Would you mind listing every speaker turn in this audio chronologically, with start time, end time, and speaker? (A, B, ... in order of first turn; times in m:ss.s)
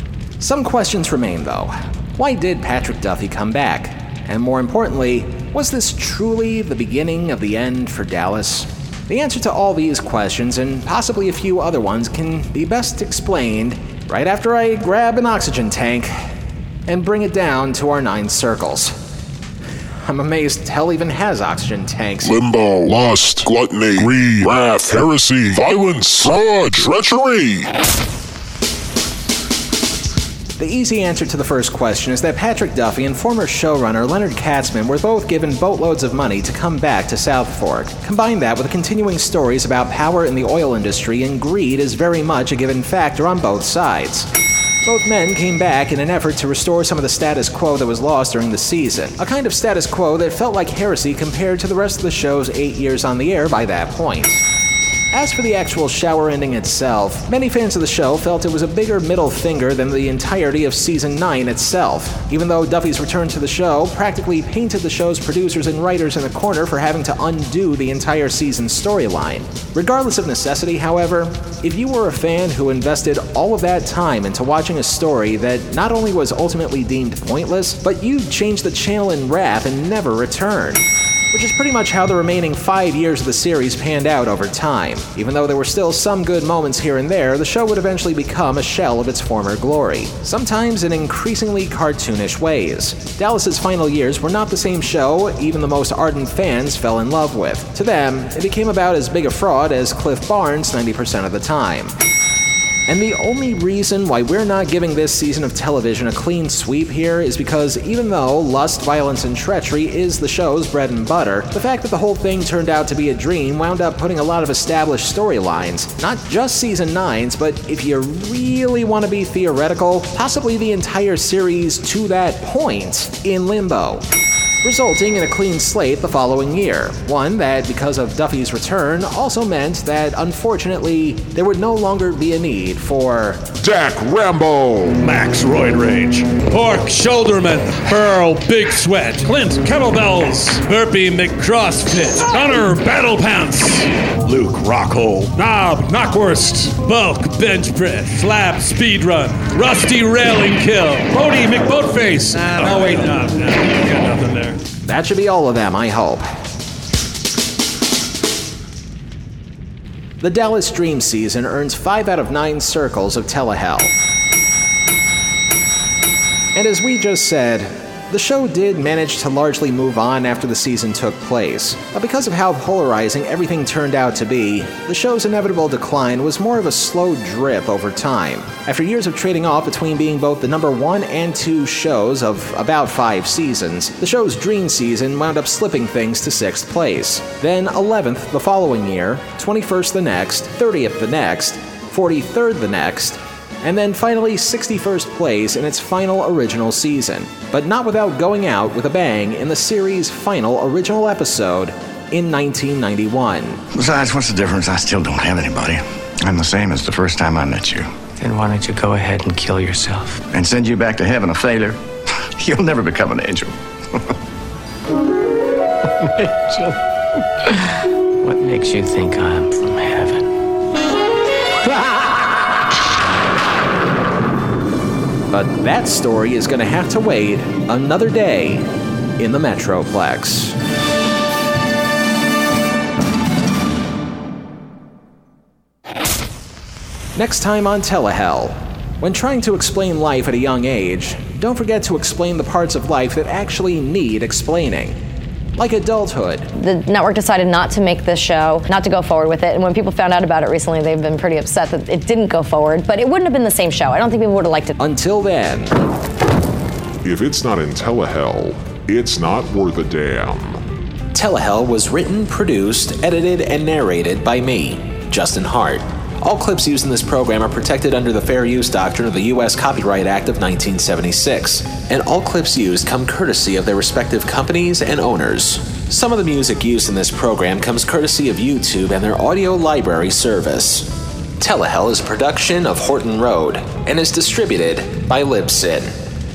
0:00.4-0:16.2 A
0:16.9-0:18.9 A
0:20.0-0:22.4 A
0:22.2-0:27.7 B
0:30.6-0:44.3 A
0:44.8-0:54.4 A
0:55.1-1:41.9 A
1:42.9-2:04.0 A
2:04.6-2:13.4 A
2:13.6-2:15.0 B
2:15.0-2:34.6 C
2:34.8-2:36.3 A
2:40.2-2:43.9 A
2:46.5-3:23.6 A
3:23.7-3:28.0 D
3:28.2-3:30.2 E
3:30.3-3:34.1 D
3:38.2-3:40.2 E
3:45.3-3:48.7 A
3:49.2-3:50.6 A
3:57.2-4:05.0 A
4:05.6-4:06.5 A
4:06.5-4:14.7 F
4:14.8-4:15.7 A
4:17.0-4:20.6 B
4:21.1-4:45.9 A